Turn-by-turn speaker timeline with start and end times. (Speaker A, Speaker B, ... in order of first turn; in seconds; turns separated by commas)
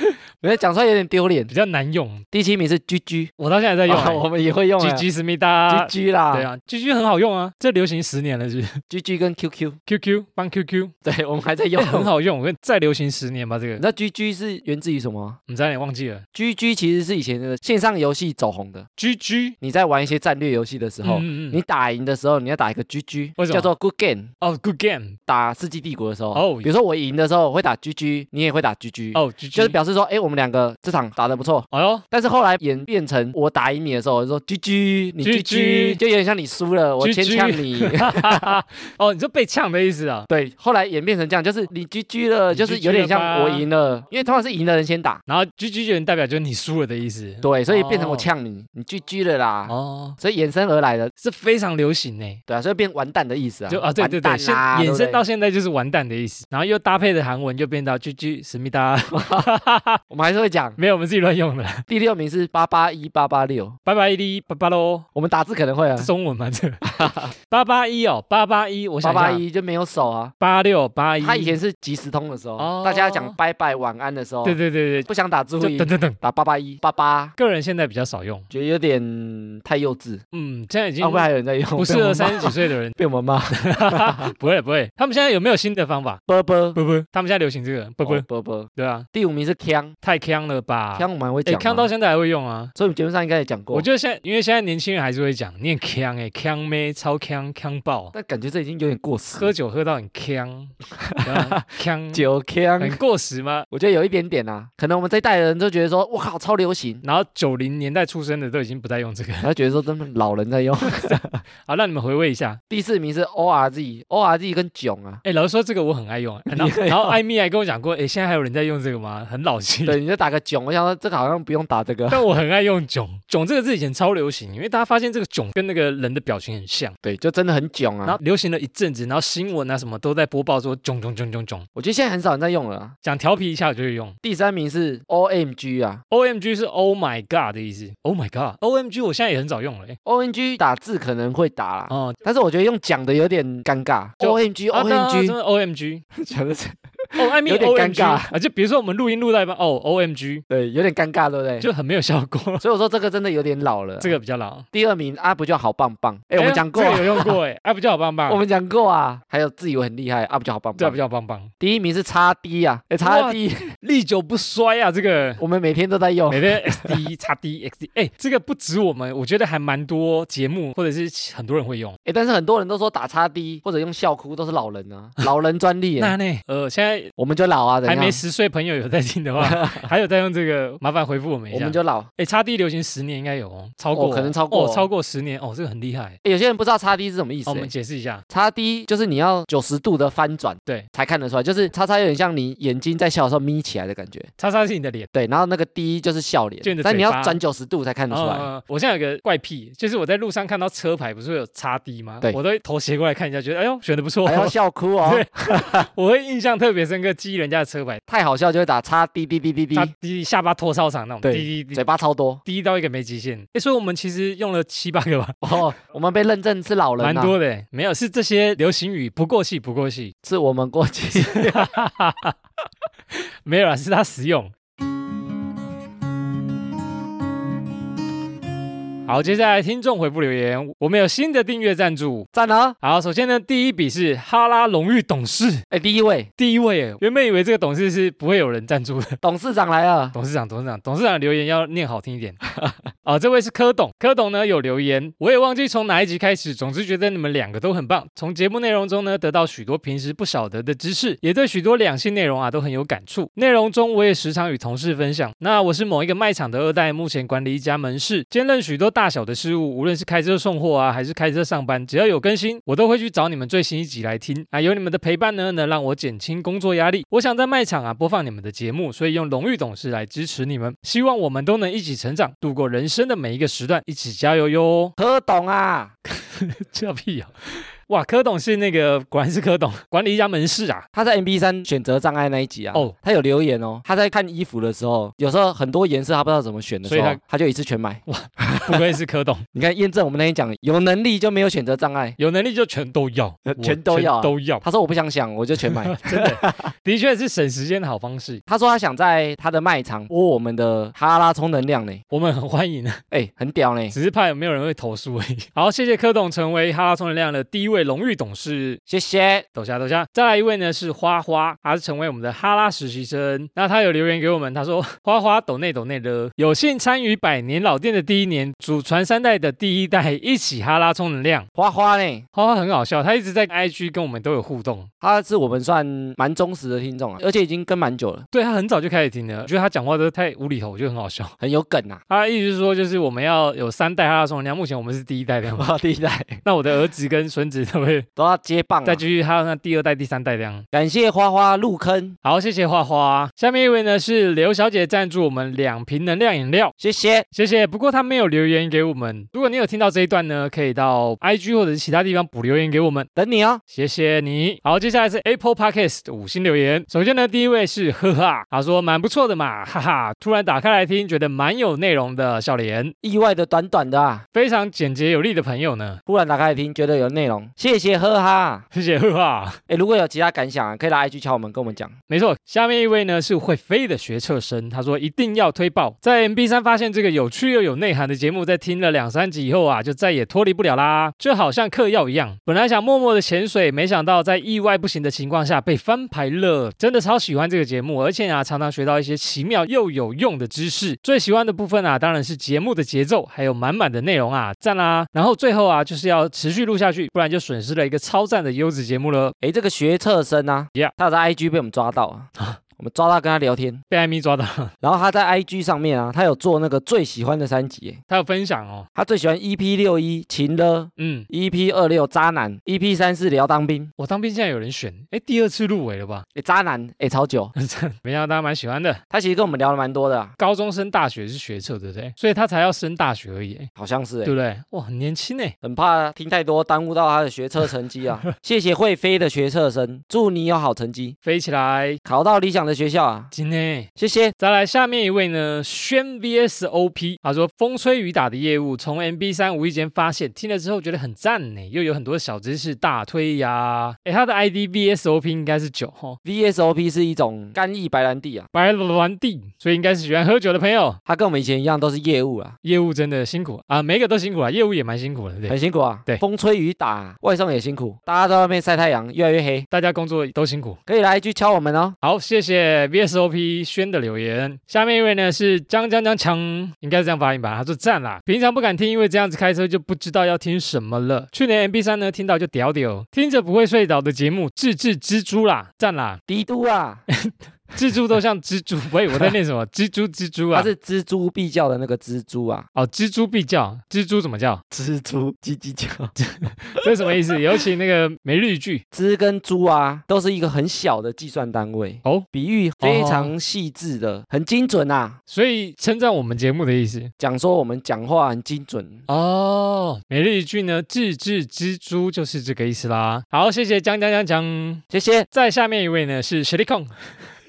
Speaker A: 0.4-1.5, Speaker B: 1.5-2.2, Speaker A: 2.3-3.3, Speaker B: 3.4-4.2, Speaker A: 3.9-5.0, Speaker B: 4.8-8.8, Speaker A: 5.7-6.5, Speaker A: 8.9-9.8, Speaker B: 9.9-10.9, Speaker A: 11.0-12.1, Speaker B: 11.8-13.8, Speaker A: 13.8-15.4, Speaker B: 15.5-16.2, Speaker A: 16.3-18.9, Speaker B: 19.0-19.6, Speaker A: 19.6-24.3, Speaker B: 21.0-21.6, Speaker B: 23.4-23.7, Speaker B: 24.4-25.2, Speaker A: 25.3-38.5, Speaker B: 26.3-26.7, Speaker B: 29.1-29.8, Speaker B: 31.7-32.0, Speaker B: 35.2-36.0, Speaker B: 37.0-40.3, Speaker A: 40.3-45.2, Speaker B: 42.5-43.6, Speaker B: 45.3-48.3, Speaker A: 47.4-51.1, Speaker B: 49.7-50.2, Speaker B: 51.2-52.4, Speaker A: 52.5-55.2, Speaker B: 53.7-60.0, Speaker A: 59.1-59.5, Speaker A: 60.1-60.8, Speaker B: 60.8-61.9, Speaker A: 61.9-63.8, Speaker B: 63.9-65.0, Speaker A: 65.1-66.1, Speaker B: 66.0-66.8, Speaker A: 66.8-67.3, Speaker B: 67.4-69.4, Speaker A: 69.0-70.3, Speaker B: 70.4-71.5, Speaker A: 71.2-77.3, Speaker B: 72.6-73.3, Speaker B: 74.4-75.1, Speaker B: 75.6-76.2, Speaker B: 77.4-78.5, Speaker A: 78.5-80.2, Speaker B: 80.3-83.0, Speaker A: 81.0-84.3, Speaker B: 83.5-86.2, Speaker A: 86.3-86.8, Speaker B: 86.7-89.0, Speaker A: 88.0-89.9, Speaker B: 90.0-92.7, Speaker A: 90.9-91.9, Speaker A: 92.8-93.8, Speaker B: 93.7-98.1, Speaker A: 98.1-99.5, Speaker B: 99.3-102.3, Speaker A: 101.0-103.0, Speaker B: 102.8-103.7, Speaker A: 103.7-107.0, Speaker B: 107.0-109.5, Speaker A: 109.4-111.4, Speaker B: 110.8-112.6, Speaker A: 112.7-115.2, Speaker B: 115.2-120.0, Speaker A: 116.5-117.2, Speaker A: 119.8-122.2, Speaker B: 122.1-126.9, Speaker A: 127.0-128.2, Speaker B: 128.1-131.7, Speaker A: 131.8-132.9, Speaker B: 133.0-134.1, Speaker A: 134.2-136.0, Speaker B: 136.1-140.0, Speaker A: 140.1-145.3, Speaker B: 141.9-142.2, Speaker B: 144.2-146.0, Speaker A: 146.2-148.3, Speaker B: 147.2-150.4, Speaker A: 150.5-151.7, Speaker B: 151.6-152.6, Speaker A: 152.6-154.1, Speaker B: 154.0-154.7, Speaker A: 154.7-157.4, Speaker B: 156.4-158.4, Speaker A: 158.3-161.0, Speaker B: 160.8-161.5, Speaker A: 161.6-163.7, Speaker B: 163.0-165.4, Speaker A: 165.4-167.0, Speaker B: 166.3-172.0, Speaker A: 172.0-176.2, Speaker B: 176.0-177.1, Speaker A: 177.2-178.2, Speaker B: 177.8-186.2, Speaker A: 179.4-179.9, Speaker A: 181.5-182.1, Speaker A: 183.9-184.9, Speaker A: 186.2-187.7, Speaker B: 187.4-188.2, Speaker A: 188.3-194.3, Speaker B: 194.4-195.1, Speaker A: 195.1-198.5, Speaker B: 196.6-197.4, Speaker B: 198.1-208.0, Speaker A: 204.2-205.9, Speaker A: 208.1-209.9, Speaker B: 209.7-211.8, Speaker A: 211.2-212.4, Speaker B: 212.4-215.4, Speaker A: 215.4-217.3, Speaker B: 217.0-220.1, Speaker A: 220.2-221.7, Speaker B: 221.2-222.3, Speaker B: 223.1-224.5, Speaker B: 229.1-232.3, Speaker A: 232.3-232.8, Speaker B: 232.8-235.6, Speaker A: 235.7-236.3, Speaker B: 236.4-239.2, Speaker A: 239.2-240.1, Speaker B: 240.1-242.4, Speaker B: 243.0-274.9, Speaker A: 275.0-275.9, Speaker B: 276.1-280.9, Speaker A: 280.9-288.8, Speaker B: 286.9-287.2, Speaker B: 288.1-289.4, Speaker A: 289.5-292.2, Speaker B: 292.2-294.6, Speaker A: 293.5-296.7, Speaker B: 295.6-298.4, Speaker A: 298.5-302.0, Speaker B: 302.1-303.0, Speaker A: 303.1-303.9, Speaker B: 303.9-308.8, Speaker A: 308.9-309.4, Speaker B: 309.5-321.5, Speaker A: 321.6-322.2, Speaker B: 322.3-324.9, Speaker A: 325.0-328.2, Speaker B: 328.3-331.3, Speaker A: 331.4-332.0, Speaker B: 332.1-335.7, Speaker A: 335.6-336.4, Speaker B: 336.4-338.1, Speaker A: 338.2-339.0, Speaker B: 338.8-340.6, Speaker A: 340.7-342.2, Speaker B: 342.2-346.7, Speaker A: 346.8-347.3, Speaker B: 347.3-353.1, Speaker A: 353.1-353.6, Speaker B: 353.7-362.9, Speaker A: 363.0-364.2, Speaker B: 364.3-366.0, Speaker A: 366.1-368.6, Speaker B: 368.7-369.6, Speaker A: 369.7-371.9, Speaker B: 372.1-399.3, Speaker A: 399.4-403.8, Speaker B: 403.9-404.7, Speaker A: 404.8-408.0, Speaker B: 408.1-408.9, Speaker A: 408.9-413.9, Speaker B: 411.0-411.3, Speaker B: 414.0-416.2, Speaker A: 416.4-417.5, Speaker B: 417.5-419.0, Speaker A: 419.1-420.3, Speaker B: 420.4-423.7, Speaker A: 423.8-424.3, Speaker B: 424.2-425.5, Speaker A: 425.6-431.1, Speaker B: 431.2-432.0, Speaker A: 432.1-433.3, Speaker B: 433.3-446.2, Speaker A: 434.0-434.3, Speaker A: 446.2-448.5, Speaker B: 448.5-451.0, Speaker A: 451.1-452.6, Speaker B: 452.6-455.6, Speaker A: 455.5-459.7, Speaker B: 459.7-460.8, Speaker A: 460.9-462.0, Speaker B: 462.0-476.2, Speaker A: 476.3-477.1, Speaker B: 477.1-480.7, Speaker A: 480.5-482.6, Speaker B: 482.7-484.6, Speaker A: 484.7-486.1, Speaker B: 486.2-488.8, Speaker A: 486.7-487.1, Speaker A: 488.9-495.2, Speaker B: 492.8-493.3, Speaker B: 495.3-497.1, Speaker A: 497.2-499.1, Speaker B: 499.1-507.1, Speaker A: 504.9-505.3